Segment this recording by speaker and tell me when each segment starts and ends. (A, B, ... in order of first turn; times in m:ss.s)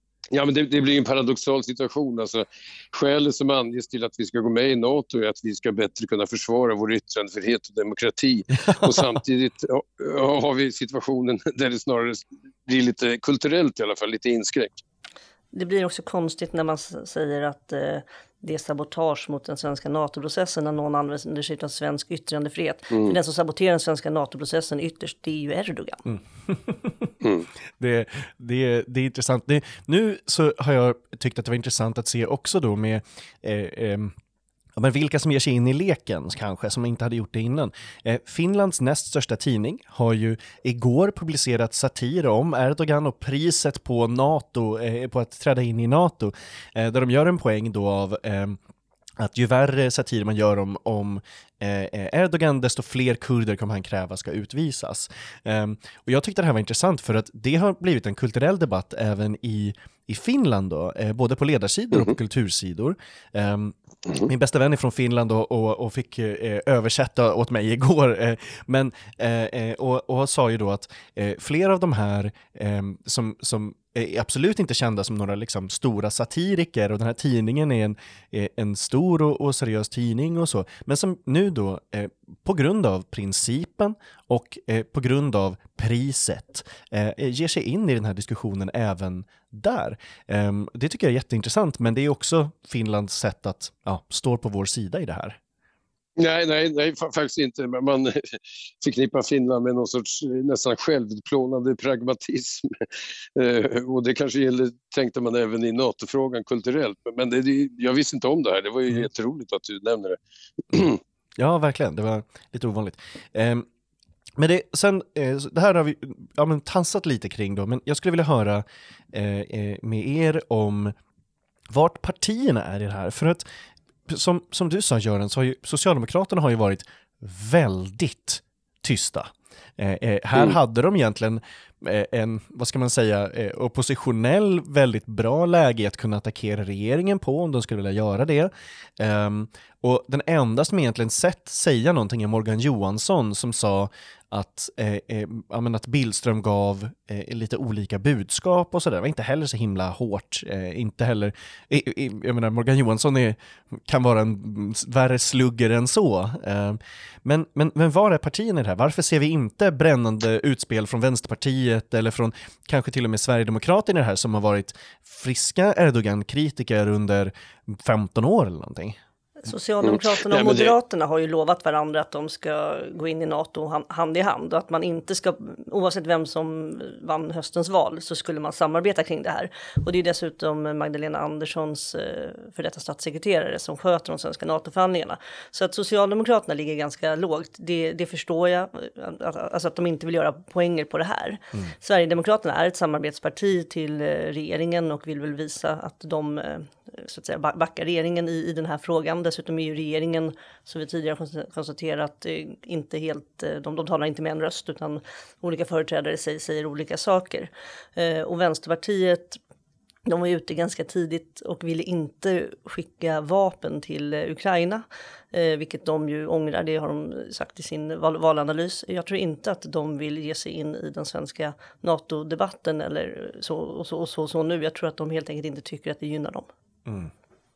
0:00.3-0:14.8 A
0:08.6-0:09.2 B
0:15.5-0:26.0 C
0:26.0-0:27.2 B
0:27.2-0:27.5 A
0:27.8-0:34.1 B
0:34.8-0:48.6 B
0:49.2-1:35.4 B
1:36.2-1:42.8 A
1:43.4-1:50.2 A
1:50.7-1:51.0 A
1:51.4-1:53.7 B
1:54.4-2:00.9 B
2:01.7-2:03.4 B
2:04.1-2:49.0 B
2:49.4-3:29.4 C
2:49.8-2:50.7 A
3:30.0-3:46.5 C
3:46.8-3:47.1 B